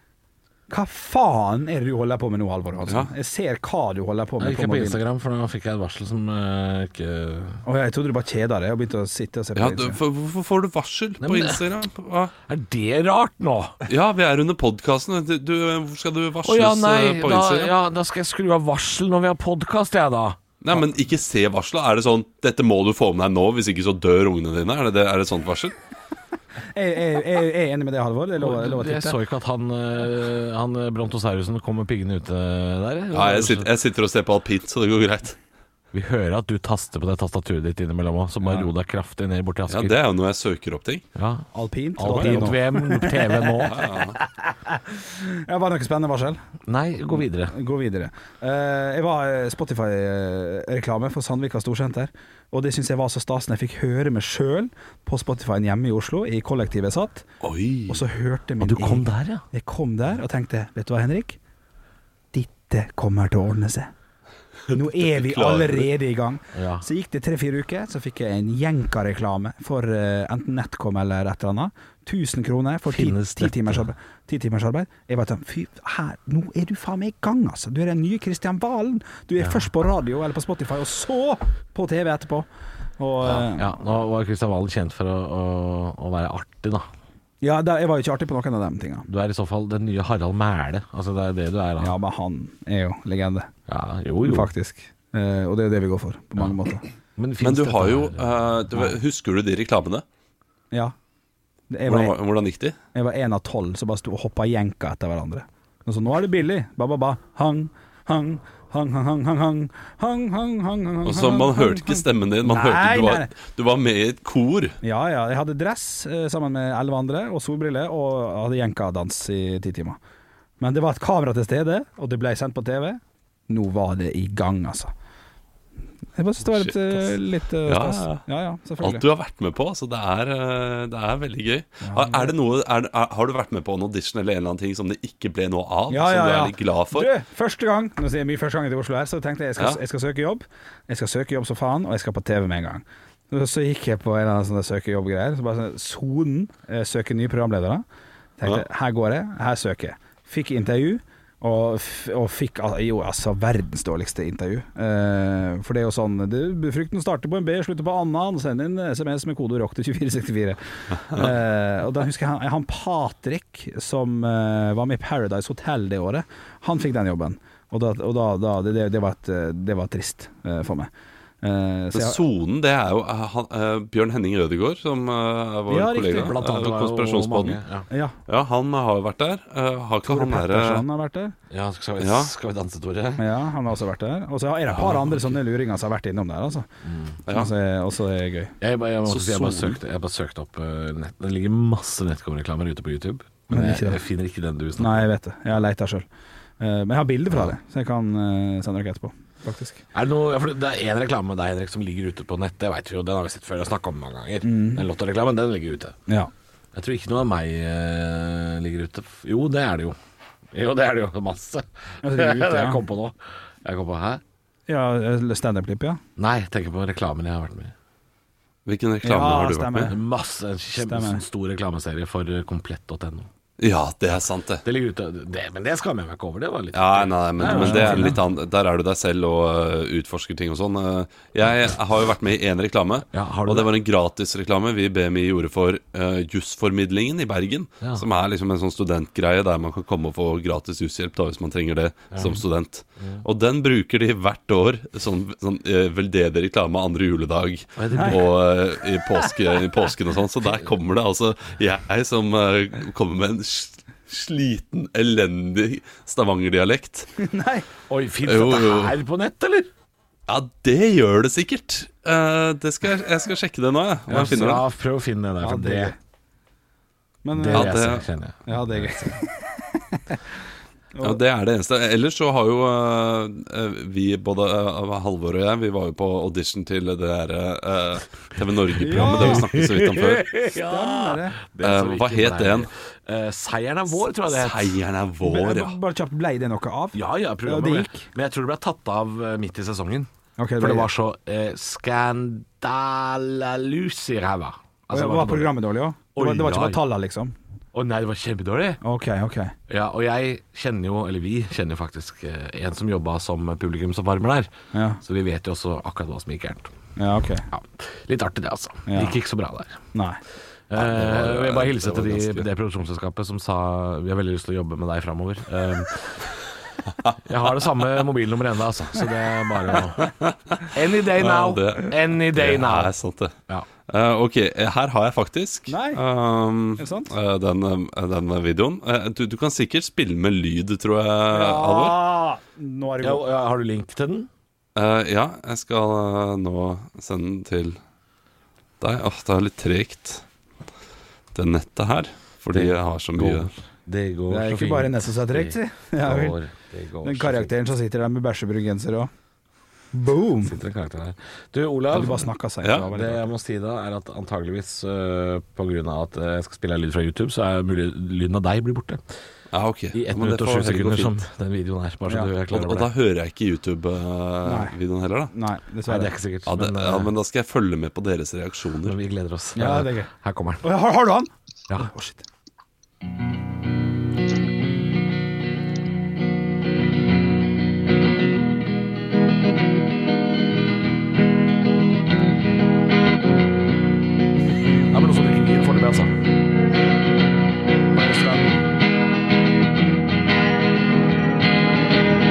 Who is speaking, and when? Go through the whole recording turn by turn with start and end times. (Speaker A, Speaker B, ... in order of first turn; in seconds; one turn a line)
Speaker A: 0.7-5.0
Speaker B: 4.4-7.6
Speaker A: 7.7-10.0
Speaker C: 9.6-12.3
Speaker B: 11.2-11.6
Speaker B: 12.5-13.8
Speaker C: 13.9-17.7
Speaker B: 16.4-20.4
Speaker C: 20.6-25.8
Speaker A: 26.8-29.2
Speaker B: 28.4-33.7
Speaker C: 33.1-35.4
Speaker B: 35.9-40.0
Speaker C: 39.7-41.0
Speaker B: 41.1-43.8
Speaker A: 41.5-43.5
Speaker C: 43.7-44.2
Speaker A: 44.1-46.4
Speaker B: 46.7-47.5
Speaker A: 47.5-57.3
Speaker C: 57.4-58.0
Speaker A: 57.9-61.4
Speaker B: 58.6-59.4
Speaker A: 62.3-63.9
Speaker A: 64.7-82.5
Speaker C: 65.0-65.9
Speaker B: 66.5-66.8
Speaker B: 72.9-73.9
Speaker A: 83.0-83.8
Speaker B: 83.2-86.9
Speaker A: 87.4-89.1
Speaker B: 89.1-91.9
Speaker A: 91.8-93.5
Speaker B: 93.7-94.5
Speaker A: 94.2-96.8
Speaker B: 97.2-98.9
Speaker C: 97.4-100.0
Speaker A: 101.7-102.2
Speaker C: 101.9-102.8
Speaker A: 102.9-113.3
Speaker C: 111.0-114.8
Speaker A: 114.8-120.0
Speaker A: 120.6-124.9
Speaker A: 126.2-129.0
Speaker C: 126.5-128.2
Speaker C: 128.8-137.1
Speaker A: 131.8-132.3
Speaker A: 135.9-147.8
Speaker A: 148.4-170.9
Speaker A: 171.4-172.2
Speaker C: 171.9-177.6
Speaker A: 175.7-176.4
Speaker B: 176.2-177.9
Speaker A: 177.9-178.2
Speaker C: 178.3-180.8
Speaker A: 180.0-181.3
Speaker B: 181.5-183.2
Speaker C: 182.0-182.3
Speaker A: 183.2-186.7
Speaker B: 186.8-187.2
Speaker C: 187.3-187.5
Speaker A: 187.3-188.5
Speaker B: 188.6-195.1
Speaker C: 189.1-189.8
Speaker A: 193.5-194.0
Speaker A: 194.8-196.1
Speaker A: 196.6-199.8
Speaker B: 199.9-206.0
Speaker A: 204.4-204.9
Speaker B: 206.7-210.0
Speaker B: 210.5-214.2
Speaker A: 212.0-212.8
Speaker A: 214.7-216.0
Speaker B: 216.2-217.7
Speaker C: 218.7-219.9
Speaker A: 219.0-220.0
Speaker B: 219.9-223.3
Speaker A: 220.8-221.2
Speaker C: 223.6-224.6
Speaker B: 224.6-228.2
Speaker C: 226.7-257.1
Speaker A: 227.4-228.2
Speaker B: 233.1-233.7
Speaker B: 242.1-242.4
Speaker B: 243.0-243.2
Speaker B: 247.8-248.3
Speaker A: 257.2-257.7
Speaker B: 257.9-259.7
Speaker C: 258.2-259.0
Speaker C: 260.3-264.7
Speaker B: 264.1-265.9
Speaker A: 265.4-266.0
Speaker A: 267.2-267.8
Speaker B: 267.3-269.1
Speaker C: 267.5-268.1
Speaker A: 268.5-270.2
Speaker A: 270.9-271.2
Speaker C: 271.0-280.4
Speaker A: 278.8-279.4
Speaker B: 278.9-284.8
Speaker A: 280.6-281.4
Speaker C: 281.6-282.7
Speaker C: 284.3-285.8
Speaker A: 285.2-288.1
Speaker B: 286.9-295.6
Speaker A: 290.4-290.9
Speaker A: 294.9-297.4
Speaker B: 296.1-296.8
Speaker B: 297.7-298.8
Speaker A: 298.8-299.6
Speaker B: 299.7-304.5
Speaker A: 304.7-305.0
Speaker B: 305.0-306.7
Speaker A: 307.0-307.5
Speaker B: 307.5-309.8
Speaker A: 308.9-309.2
Speaker A: 309.9-310.2
Speaker B: 310.7-316.3
Speaker C: 310.8-312.5
Speaker B: 317.2-320.1
Speaker C: 320.0-323.3
Speaker B: 320.7-322.9
Speaker C: 323.9-332.0
Speaker A: 325.7-326.0
Speaker A: 326.8-327.1
Speaker A: 331.3-333.2
Speaker B: 333.0-334.3
Speaker C: 334.8-337.8
Speaker C: 338.8-340.2
Speaker C: 341.3-343.5
Speaker B: 342.5-347.6
Speaker A: 344.3-346.4
Speaker A: 347.0-349.1
Speaker A: 349.9-350.6
Speaker B: 350.4-352.3
Speaker A: 351.9-353.3
Speaker B: 352.8-359.0
Speaker C: 359.5-361.2
Speaker B: 359.9-362.9
Speaker C: 362.5-365.3
Speaker A: 364.4-364.7
Speaker A: 365.3-366.1
Speaker B: 365.9-367.1
Speaker C: 366.5-369.0
Speaker B: 368.8-370.6
Speaker A: 369.6-370.1
Speaker A: 370.6-372.2
Speaker B: 384.9-386.1
Speaker B: 387.9-388.5